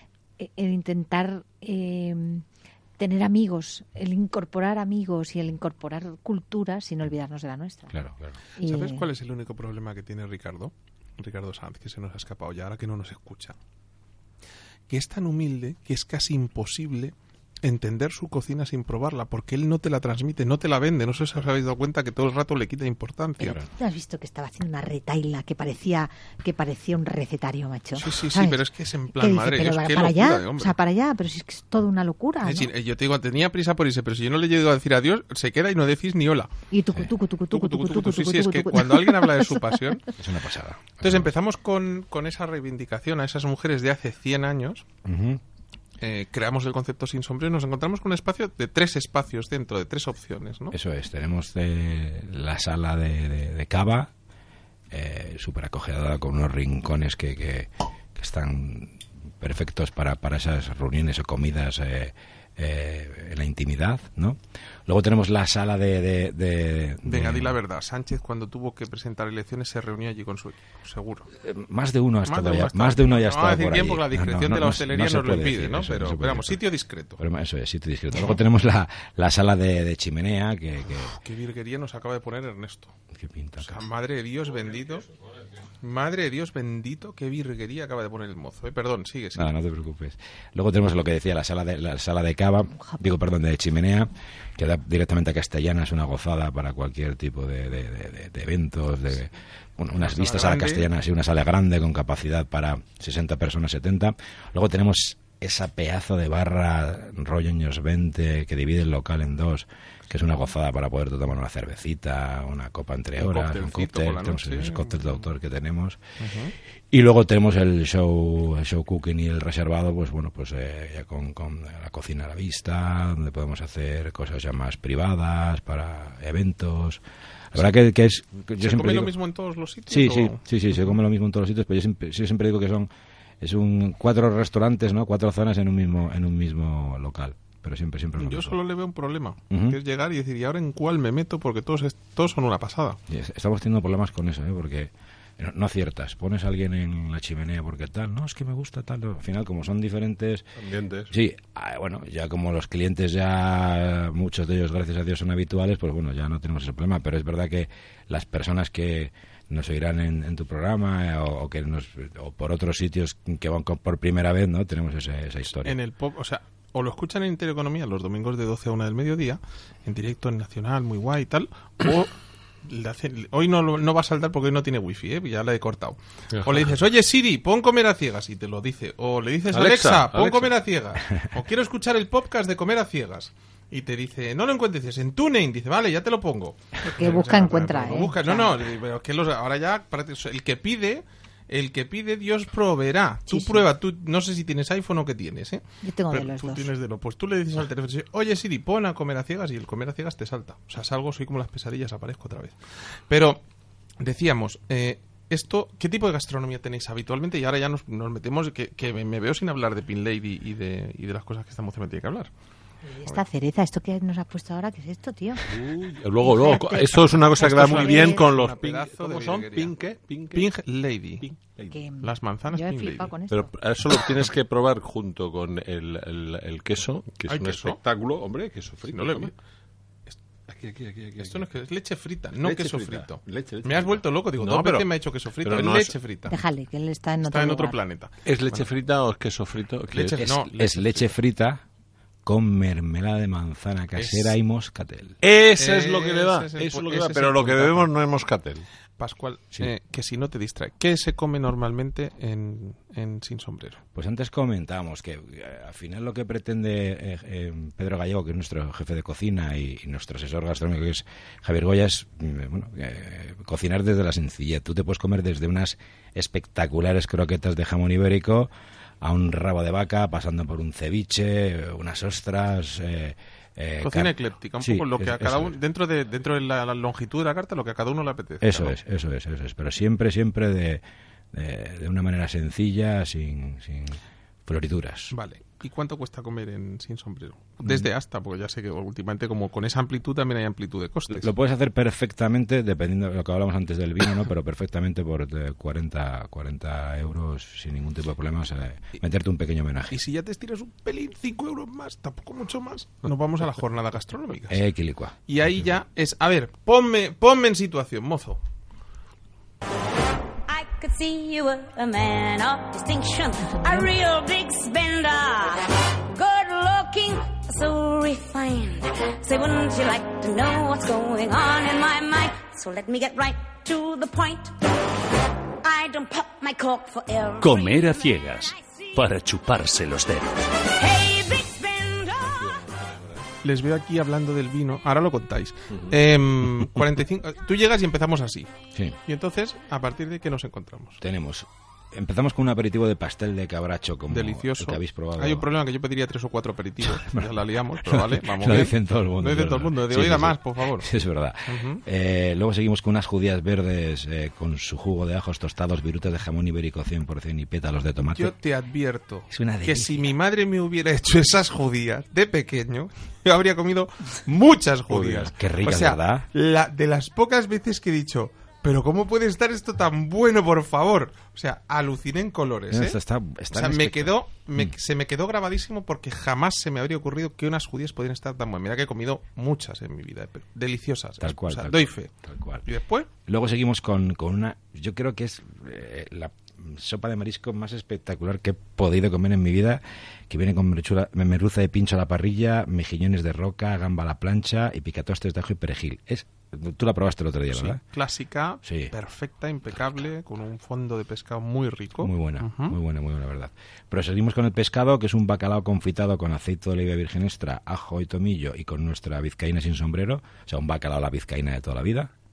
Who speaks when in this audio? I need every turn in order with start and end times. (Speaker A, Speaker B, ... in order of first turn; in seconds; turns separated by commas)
Speaker A: 0.4-2.5, Speaker A: 3.0-8.0, Speaker B: 7.9-8.4, Speaker A: 8.6-9.0, Speaker C: 8.6-13.6, Speaker C: 14.9-23.6, Speaker A: 23.4-28.6, Speaker C: 28.0-30.8, Speaker A: 29.2-32.7, Speaker C: 32.4-36.5, Speaker A: 36.7-39.6, Speaker C: 37.5-40.0, Speaker B: 40.2-41.3, Speaker C: 41.0-44.9, Speaker B: 45.0-45.4, Speaker C: 46.0-50.8, Speaker B: 50.7-54.1, Speaker B: 54.9-67.6, Speaker C: 67.1-71.3, Speaker B: 71.4-76.6, Speaker C: 72.3-77.2, Speaker B: 77.2-81.1, Speaker C: 80.9-83.0, Speaker B: 83.1-83.8, Speaker C: 83.6-85.1, Speaker C: 85.8-89.5, Speaker B: 89.3-116.0, Speaker C: 100.0-100.9, Speaker C: 113.2-115.3, Speaker C: 116.2-116.5, Speaker B: 116.9-127.0, Speaker B: 127.5-129.1, Speaker C: 128.6-131.0, Speaker B: 129.9-132.9, Speaker B: 133.4-138.6, Speaker C: 138.2-143.0, Speaker B: 139.5-139.8, Speaker B: 143.1-150.5, Speaker D: 150.6-151.1, Speaker B: 151.1-165.8, Speaker C: 165.6-172.1, Speaker C: 172.7-203.4, Speaker D: 176.3-176.6, Speaker D: 179.5-180.5, Speaker A: 186.9-188.6, Speaker A: 193.3-193.7, Speaker A: 195.8-196.7, Speaker C: 204.0-212.3, Speaker A: 212.9-215.6, Speaker D: 215.5-220.5, Speaker A: 216.2-218.3, Speaker C: 217.4-219.8, Speaker C: 220.3-221.3, Speaker D: 221.2-221.8, Speaker A: 221.7-223.5, Speaker C: 222.0-223.1, Speaker D: 223.3-229.3, Speaker C: 227.3-227.8, Speaker C: 228.9-229.3, Speaker D: 230.5-231.5, Speaker C: 231.2-236.4, Speaker D: 232.4-234.9, Speaker D: 235.4-235.9, Speaker A: 236.3-237.8, Speaker C: 237.2-238.7, Speaker D: 238.2-240.5, Speaker C: 239.9-241.0, Speaker B: 240.6-241.6, Speaker B: 242.3-245.2, Speaker C: 244.0-244.3, Speaker D: 245.2-248.7, Speaker C: 245.6-247.9, Speaker C: 249.0-253.8, Speaker B: 253.9-275.5, Speaker C: 273.8-278.8, Speaker B: 278.4-285.1, Speaker C: 285.1-291.3, Speaker B: 291.1-300.0, Speaker C: 299.9-304.6, Speaker B: 304.5-305.2, Speaker C: 305.3-308.4, Speaker E: 310.5-324.6, Speaker E: 325.6-329.0, Speaker F: 327.4-330.3, Speaker E: 330.6-332.5, Speaker D: 332.4-333.0, Speaker C: 333.4-338.5, Speaker C: 339.1-341.0, Speaker B: 341.0-345.4, Speaker C: 344.1-350.9, Speaker B: 346.9-347.3, Speaker B: 347.8-358.3, Speaker C: 351.5-351.8, Speaker C: 358.1-373.0, Speaker B: 359.3-360.1, Speaker D: 364.9-365.3, Speaker B: 365.3-366.3, Speaker B: 372.7-374.7, Speaker C: 373.5-382.1, Speaker B: 381.2-382.6, Speaker C: 382.6-383.1, Speaker B: 383.3-397.8, Speaker C: 397.5-402.8, Speaker B: 398.6-398.9, Speaker B: 402.0-412.1